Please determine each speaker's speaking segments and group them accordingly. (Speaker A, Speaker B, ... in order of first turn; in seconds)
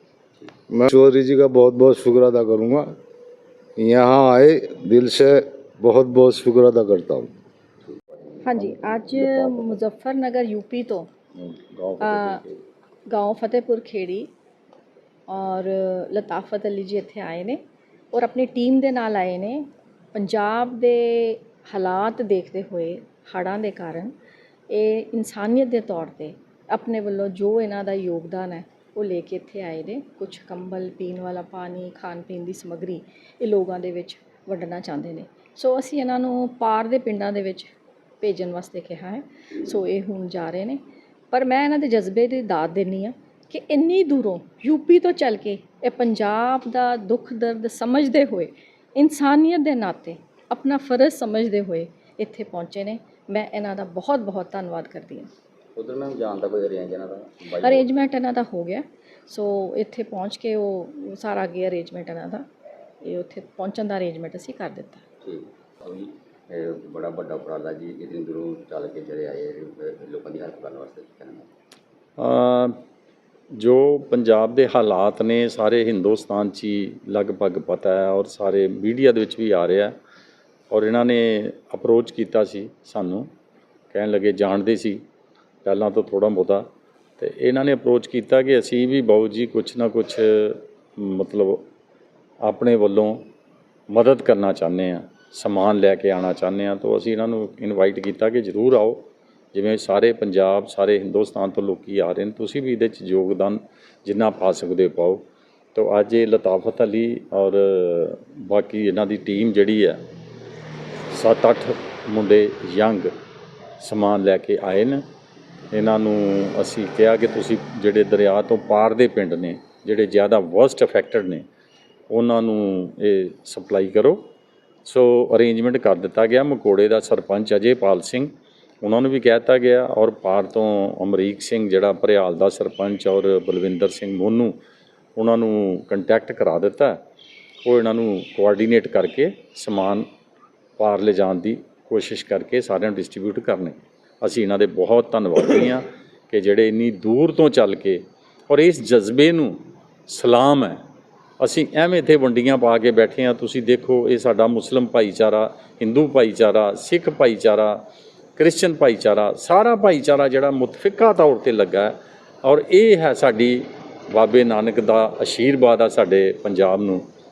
Speaker A: 0.7-2.9, 3.8-7.3, 9.1-9.6, 11.5-11.9
Speaker B: 8.4-11.1, 12.0-12.4, 13.1-14.3, 15.3-17.6, 18.1-24.1, 24.7-55.3, 57.6-62.4, 63.0-65.0
Speaker C: 55.8-57.9, 65.2-71.5
Speaker D: 72.2-72.7, 73.6-79.9, 80.7-83.3, 83.9-85.0, 85.6-86.7, 87.2-91.6, 92.4-93.2, 93.9-110.0, 111.1-113.1, 113.8-115.0, 115.7-121.4, 122.1-124.2, 124.8-128.3, 128.8-134.5, 135.2-137.0, 137.6-140.1, 140.8-150.8, 151.4-157.8, 158.4-167.0